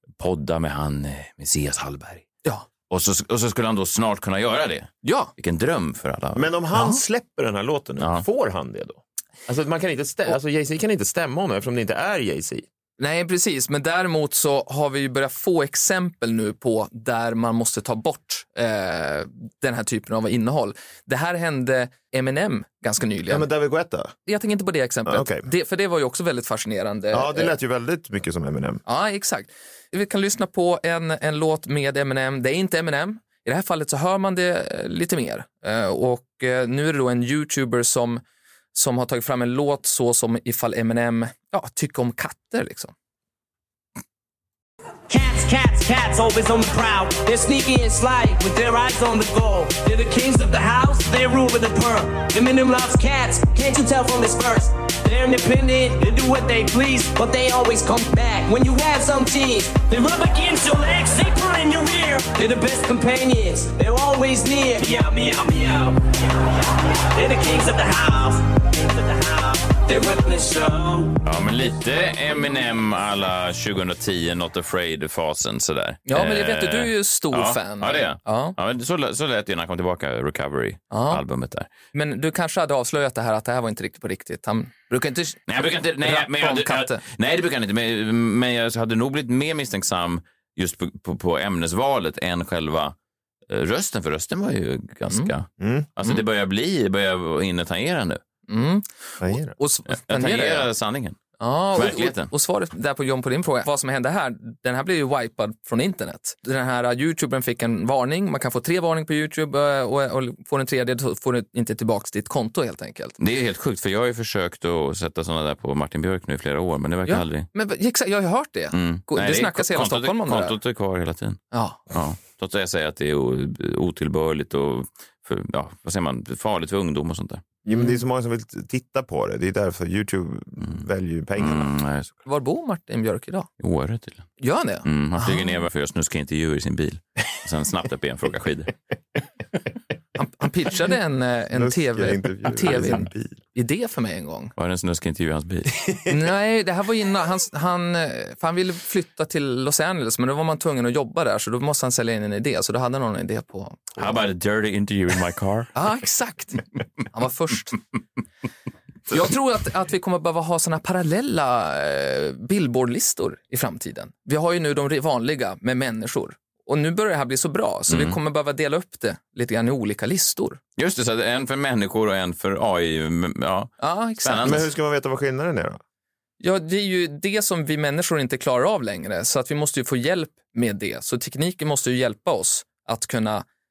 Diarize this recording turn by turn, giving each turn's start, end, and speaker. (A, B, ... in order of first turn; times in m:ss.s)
0:00.2-0:02.3 A
0:02.9-0:06.5 A
0:05.0-0:05.3 B
0:06.3-0:12.6 C
0:06.7-0:07.0 B
0:08.0-0:08.2 A
0:13.0-0:23.5 B
0:23.3-0:24.1 C
0:24.2-0:27.5 B
0:25.1-0:25.4 C
0:27.1-0:28.8 C
0:28.8-0:38.2 B
0:38.7-0:42.9 B
0:45.1-1:11.2 D
1:11.2-1:21.7 A
1:16.0-1:18.5 B
1:20.9-1:21.2 B
1:21.9-1:27.0 B
1:25.5-1:32.9 A
1:33.5-1:38.2 A
1:35.6-1:35.9 C
1:38.5-1:40.7 B
1:39.2-1:39.5 C
1:39.9-1:41.2 A
1:41.4-1:53.2 B
1:41.7-1:42.3 A
1:53.2-1:57.5 A
1:57.0-2:00.6 B
1:58.7-2:07.4 A
2:01.5-2:01.8 B
2:07.6-2:11.7 C
2:07.7-2:08.0 B
2:11.4-2:12.2 A
2:12.2-2:13.5 B
2:13.6-2:14.3 A
2:14.4-2:15.5 B
2:14.8-2:18.7 A
2:20.2-2:24.5 B
2:21.5-2:23.4 C
2:24.6-2:25.8 A
2:26.1-2:34.2 B
2:34.0-2:35.7 A
2:35.7-2:37.8 B
2:39.1-2:50.6 B
2:47.9-2:48.2 A
2:50.8-2:54.6 A
2:53.8-2:54.6 B
2:54.4-2:55.8 C
2:56.4-3:03.4 B